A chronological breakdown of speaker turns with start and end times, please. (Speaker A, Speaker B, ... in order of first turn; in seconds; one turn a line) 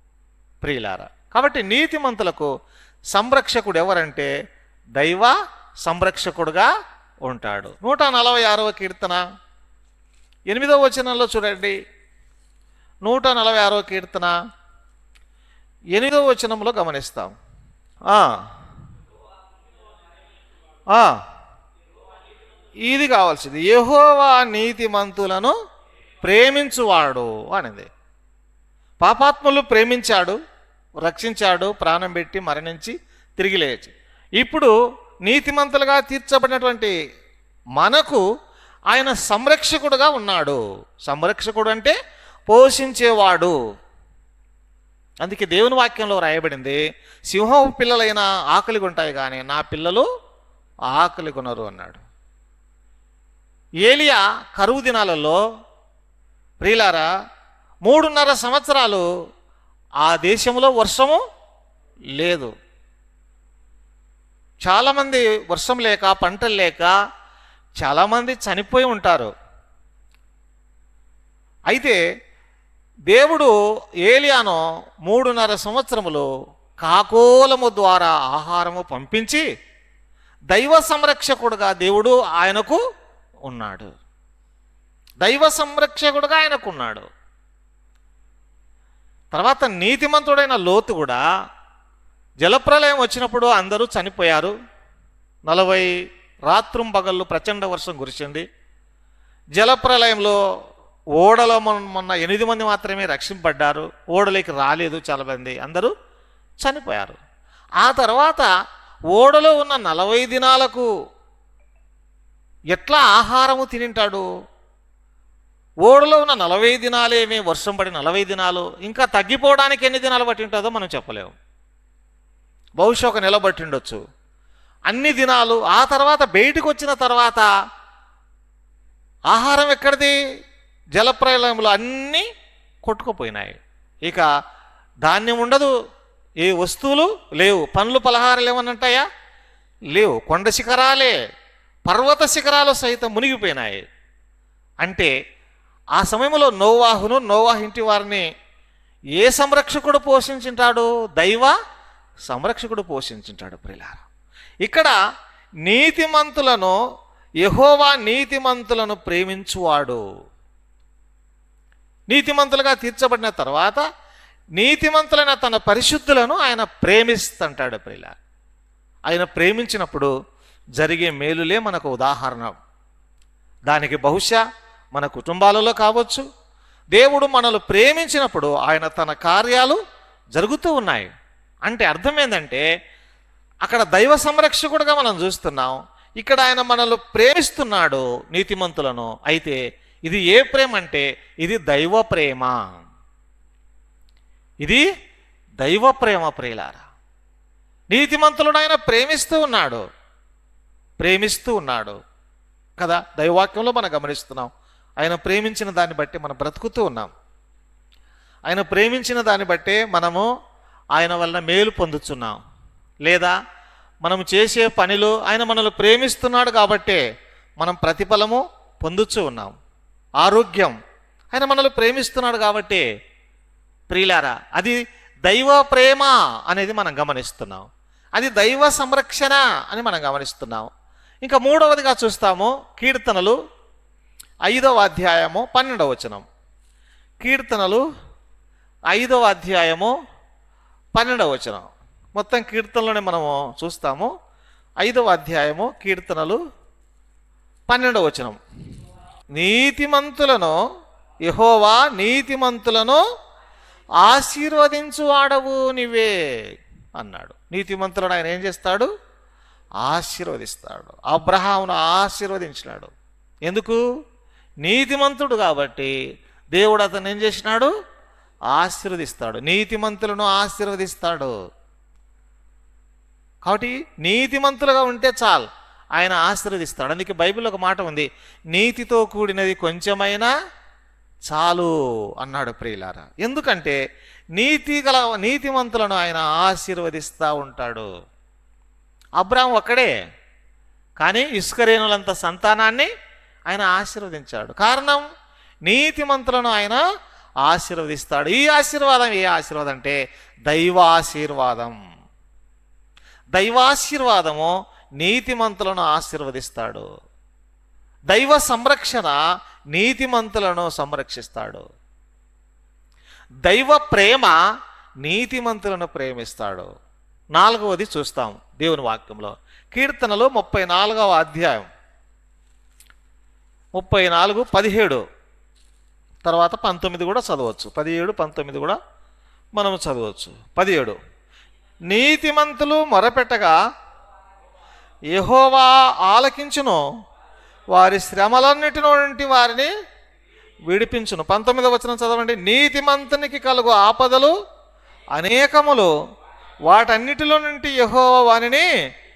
Speaker A: 0.6-2.5
Speaker A: 3.1-4.3
Speaker A: 5.0-5.3
Speaker A: 5.8-6.7
Speaker A: 7.2-9.2
Speaker A: 10.5-11.8
Speaker A: 13.0-14.3
Speaker A: 15.9-17.3
Speaker A: 18.1-18.5
Speaker A: 20.9-21.2
Speaker A: 22.8-25.5
Speaker A: 26.2-27.9
Speaker A: 29.0-30.4
Speaker A: 31.0-34.7
Speaker A: 35.2-36.9
Speaker A: 37.8-38.2
Speaker A: 38.9-41.9
Speaker A: 42.5-43.5
Speaker A: 45.2-50.1
Speaker A: 50.9-52.0
Speaker A: 53.9-55.4
Speaker A: 56.6-57.1
Speaker A: 57.8-59.0
Speaker A: 60.0-61.2
Speaker A: 62.1-62.5
Speaker A: 64.6-66.9
Speaker A: 67.8-69.3
Speaker A: 71.7-72.0
Speaker A: 73.1-73.5
Speaker A: 74.0-76.3
Speaker A: 76.8-79.5
Speaker A: 80.5-82.8
Speaker A: 83.5-83.9
Speaker A: 85.2-87.1
Speaker A: 89.3-91.2
Speaker A: 92.4-94.5
Speaker A: 95.5-95.9
Speaker A: 96.5-98.5
Speaker A: 99.5-100.4
Speaker A: 101.2-105.9
Speaker A: 106.6-107.2
Speaker A: 107.8-108.5
Speaker A: 109.1-110.9
Speaker A: 112.7-114.2
Speaker A: 115.8-121.3
Speaker A: 122.8-124.0
Speaker A: 124.9-127.5
Speaker A: 129.3-130.2
Speaker A: 130.9-132.3
Speaker A: 132.8-134.3
Speaker A: 135.1-135.7
Speaker A: 136.4-139.1
Speaker A: 139.9-141.1
Speaker A: 141.9-143.8
Speaker A: 144.8-145.1
Speaker A: 145.9-148.2
Speaker A: 149.2-151.5
Speaker A: 152.3-154.0
Speaker A: 154.7-154.9
Speaker A: 155.7-156.8
Speaker A: 157.4-160.0
Speaker A: 162.1-163.8
Speaker A: 164.6-168.1
Speaker A: 169.1-170.1
Speaker A: 170.8-172.6
Speaker A: 173.7-174.4
Speaker A: 174.9-176.2
Speaker A: 176.9-179.8
Speaker A: 180.3-181.1
Speaker A: 181.7-182.6
Speaker A: 183.6-192.6
Speaker A: 195.6-196.8
Speaker A: 197.9-199.8
Speaker A: 201.0-202.0
Speaker A: 202.8-207.1
Speaker A: 208.5-210.3
Speaker A: 210.9-212.4
Speaker A: 213.1-213.3
Speaker A: 214.0-217.0
Speaker A: 217.6-219.5
Speaker A: 220.2-220.8
Speaker A: 221.3-222.8
Speaker A: 223.9-230.7
Speaker A: 231.2-233.4
Speaker A: 234.5-236.2
Speaker A: 237.2-237.8
Speaker A: 238.9-239.9
Speaker A: 240.9-244.1
Speaker A: 244.8-246.4
Speaker A: 247.7-248.4
Speaker A: 249.3-250.6
Speaker A: 251.2-253.0
Speaker A: 254.0-256.1
Speaker A: 257.0-258.9
Speaker A: 259.8-262.9
Speaker A: 263.4-263.8
Speaker A: 264.6-265.9
Speaker A: 266.5-267.7
Speaker A: 268.5-271.3
Speaker A: 273.4-280.3
Speaker A: 281.2-283.8
Speaker A: 284.3-287.9
Speaker A: 289.2-289.9
Speaker A: 291.0-292.9
Speaker A: 293.5-295.1
Speaker A: 295.6-296.8
Speaker A: 297.4-301.8
Speaker A: 303.3-306.9
Speaker A: 308.1-309.2
Speaker A: 309.7-311.6
Speaker A: 313.4-314.4
Speaker A: 315.0-316.7
Speaker A: 317.4-321.7
Speaker A: 323.8-325.0
Speaker A: 326.2-328.8
Speaker A: 329.5-331.0
Speaker A: 331.9-333.6
Speaker A: 335.1-336.8
Speaker A: 337.7-339.7
Speaker A: 340.7-344.3
Speaker A: 345.1-345.9
Speaker A: 346.6-348.7